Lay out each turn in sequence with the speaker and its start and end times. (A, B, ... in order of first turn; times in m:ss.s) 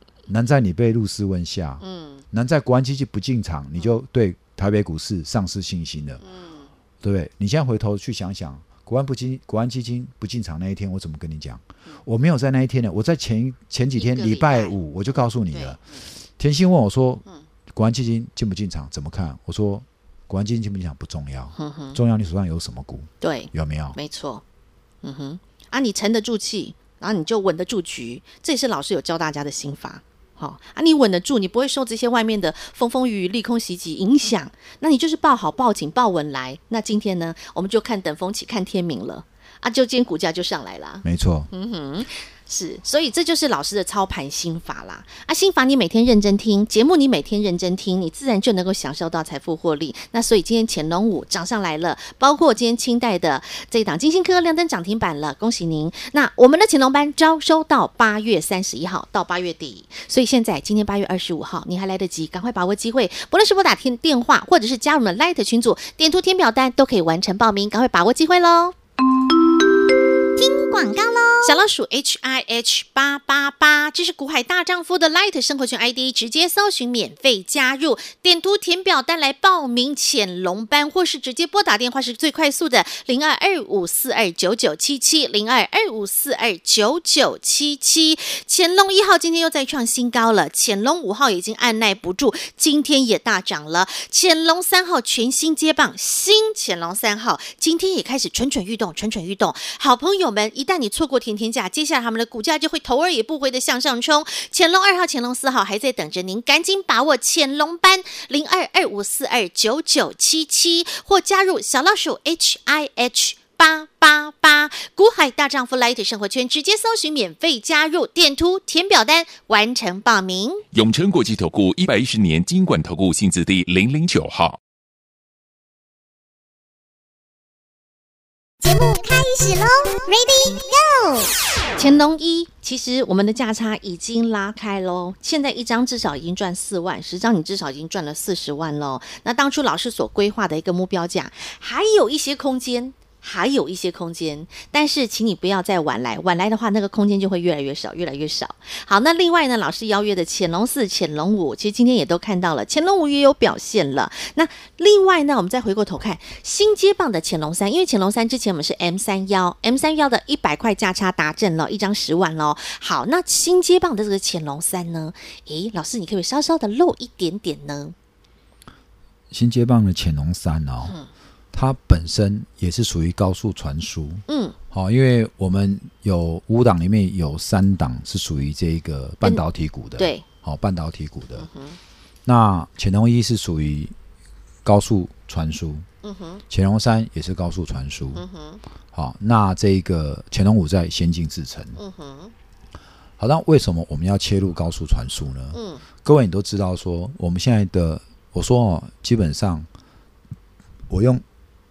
0:00.3-0:06.2 A
0:01.8-0:02.2 B
0:06.2-0:06.7 B
0:07.0-0:24.0 A
0:14.0-0:14.8 B
0:15.5-0:16.0 B
0:21.6-0:22.0 B
0:23.2-0:24.4 B
0:25.0-1:08.7 B
0:41.0-0:41.5 A
1:10.4-1:11.6 C
1:11.4-2:00.6 B
2:00.7-2:04.6 D
2:08.6-2:11.3 C
2:11.8-2:47.9 B
2:49.3-2:51.0 A
2:51.5-3:01.5 A
2:54.3-2:54.6 B
3:00.0-3:00.2 B
3:01.4-3:01.8 B
3:02.2-3:03.9 A
3:04.6-3:05.9 A
3:06.0-3:06.4 B
3:06.5-3:08.2 A
3:08.1-3:08.6 B
3:08.9-3:11.8 A
3:11.8-3:12.3 B
3:13.2-3:19.7 A
3:15.5-3:15.8 B
3:20.9-3:21.2 A